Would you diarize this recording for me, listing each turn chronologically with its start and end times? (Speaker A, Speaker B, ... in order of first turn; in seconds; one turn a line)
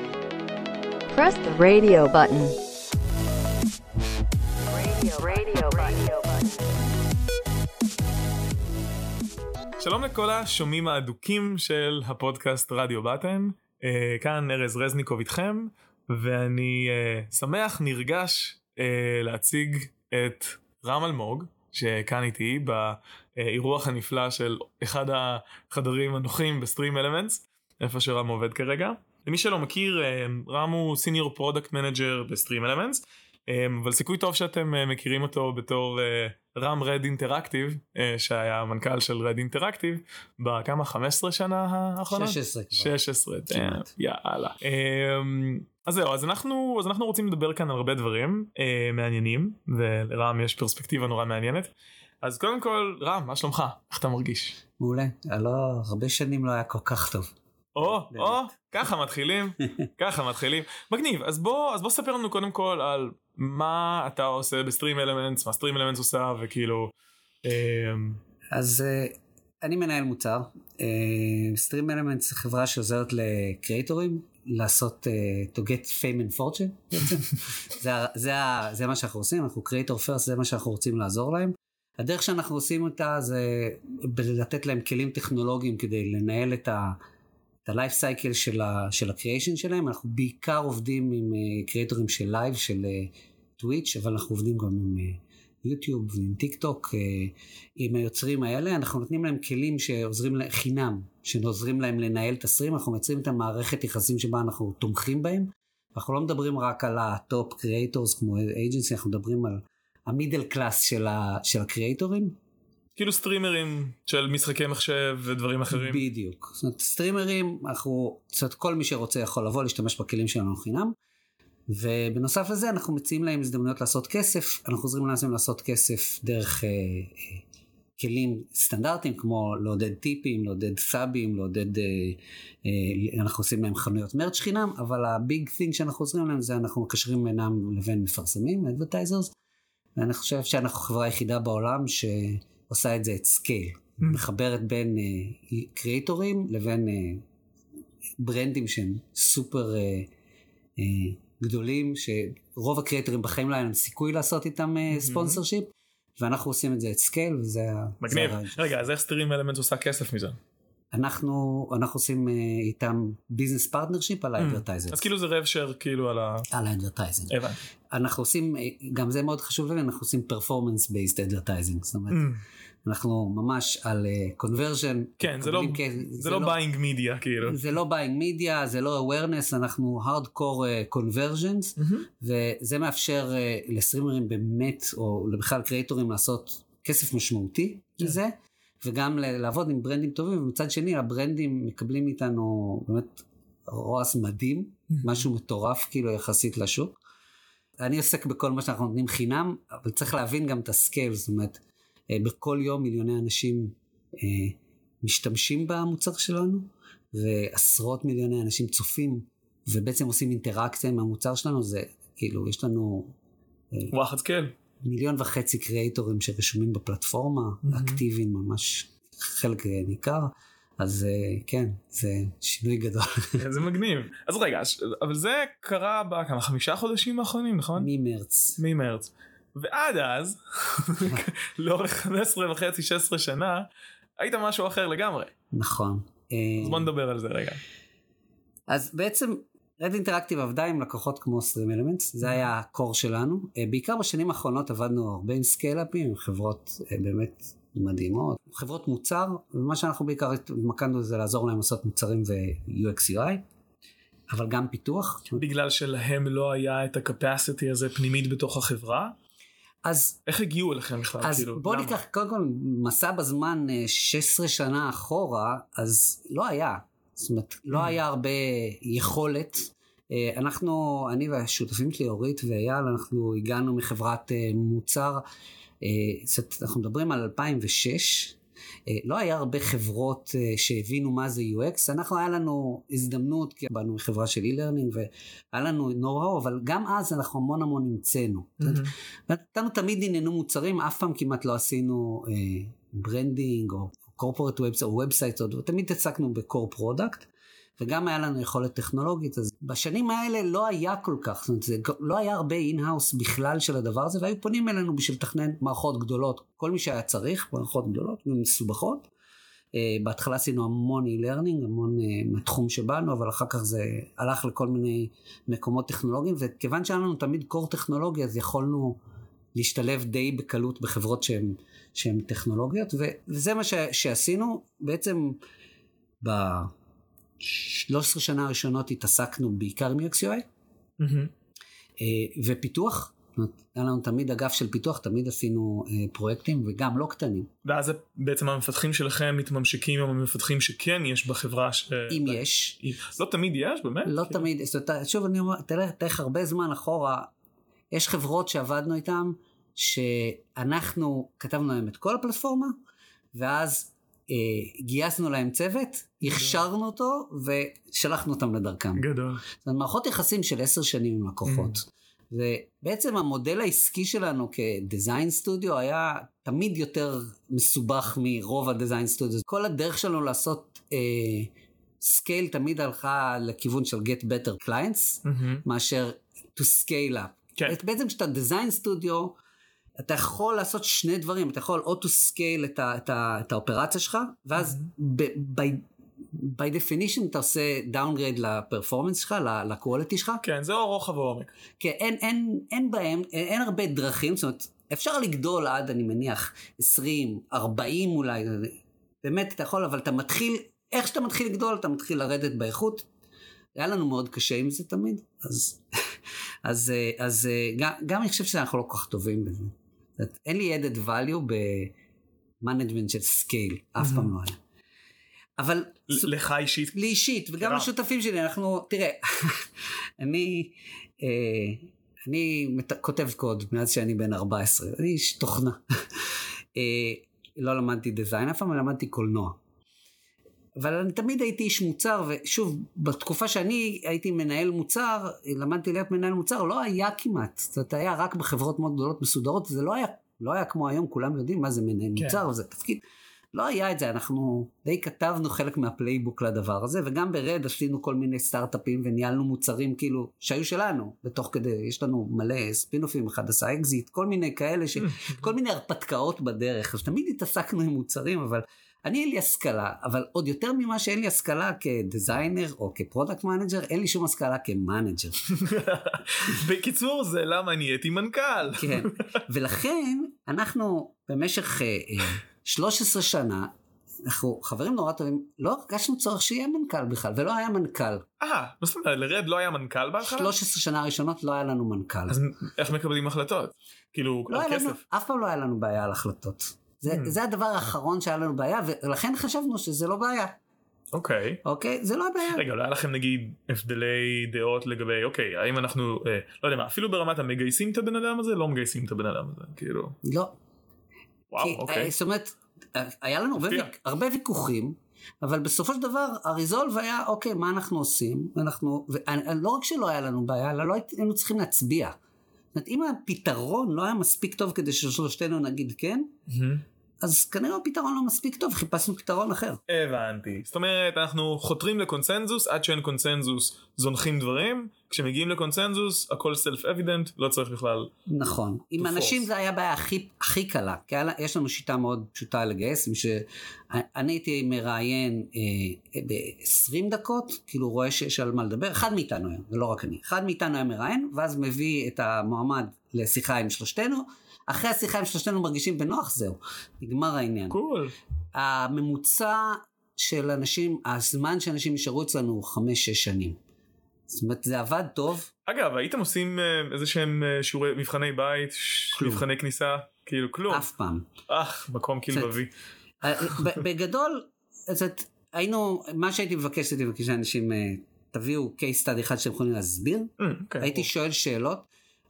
Speaker A: 1.1-2.5
Speaker A: 4.7-6.7
Speaker B: 9.8-54.6
Speaker C: 42.1-42.9
Speaker C: 43.5-43.9
Speaker C: 54.8-57.3
Speaker B: 57.7-66.9
Speaker C: 58.1-58.4
Speaker B: 67.4-68.2
Speaker C: 68.5-87.0
Speaker C: 87.6-112.3
Speaker B: 113.0-116.0
Speaker C: 115.7-120.9
Speaker C: 121.7-127.4
Speaker C: 128.0-139.3
Speaker C: 139.9-147.2
Speaker C: 148.2-150.1
Speaker C: 150.8-158.8
Speaker B: 154.9-155.4
Speaker B: 158.0-160.4
Speaker C: 160.9-165.0
Speaker B: 164.4-166.5
Speaker C: 166.5-167.4
Speaker B: 167.3-167.6
Speaker C: 167.9-172.3
Speaker B: 172.1-172.4
Speaker C: 172.8-176.6
Speaker B: 175.2-177.6
Speaker C: 177.4-197.0
Speaker B: 181.8-182.0
Speaker C: 197.8-213.1
Speaker B: 213.9-214.5
Speaker C: 214.8-223.4
Speaker B: 217.7-218.0
Speaker B: 223.4-227.9
Speaker C: 227.8-228.6
Speaker B: 228.6-233.7
Speaker B: 234.2-235.3
Speaker C: 235.5-236.9
Speaker B: 236.6-237.6
Speaker C: 238.7-253.4
Speaker C: 254.3-255.4
Speaker B: 255.3-259.1
Speaker C: 259.8-260.2
Speaker B: 260.2-261.9
Speaker C: 261.2-275.2
Speaker C: 275.8-309.1
Speaker B: 288.6-288.9
Speaker C: 309.7-319.0
Speaker C: 319.5-325.4
Speaker C: 326.2-326.7
Speaker C: 327.4-330.4
Speaker B: 331.0-331.3
Speaker C: 332.0-337.5
Speaker B: 337.6-344.4
Speaker C: 342.1-342.8
Speaker C: 344.0-347.3
Speaker C: 347.9-352.7
Speaker C: 353.3-359.0
Speaker B: 356.2-356.6
Speaker B: 358.9-359.4
Speaker C: 359.6-379.4
Speaker B: 361.4-361.8
Speaker B: 375.2-375.6
Speaker C: 380.0-390.4
Speaker B: 390.4-391.5
Speaker C: 391.8-403.1
Speaker C: 403.8-405.8
Speaker C: 406.6-411.9
Speaker C: 412.6-414.6
Speaker B: 414.0-414.3
Speaker C: 415.6-416.3
Speaker B: 416.1-417.0
Speaker C: 416.9-419.7
Speaker B: 417.6-417.9
Speaker C: 420.2-425.8
Speaker C: 426.7-429.6
Speaker C: 430.8-443.0
Speaker C: 443.5-465.4
Speaker B: 455.0-455.4
Speaker B: 465.5-469.3
Speaker C: 468.8-473.7
Speaker C: 474.2-478.2
Speaker B: 478.4-480.5
Speaker C: 480.2-482.4
Speaker B: 482.3-485.0
Speaker C: 484.5-490.6
Speaker B: 491.1-491.6
Speaker C: 491.6-492.6
Speaker B: 492.5-500.2
Speaker C: 500.2-500.5
Speaker B: 501.5-502.1
Speaker C: 501.6-512.1
Speaker B: 503.6-503.9
Speaker C: 512.7-516.3
Speaker B: 516.5-516.8
Speaker C: 517.2-519.8
Speaker B: 519.9-528.1
Speaker C: 528.3-547.8
Speaker B: 529.0-529.5
Speaker B: 547.7-548.1
Speaker C: 548.5-553.6
Speaker C: 554.3-555.5
Speaker B: 555.6-560.9
Speaker C: 559.1-559.4
Speaker C: 560.7-561.3
Speaker B: 561.5-562.7
Speaker C: 562.3-562.5
Speaker C: 563.2-571.9
Speaker B: 570.4-571.1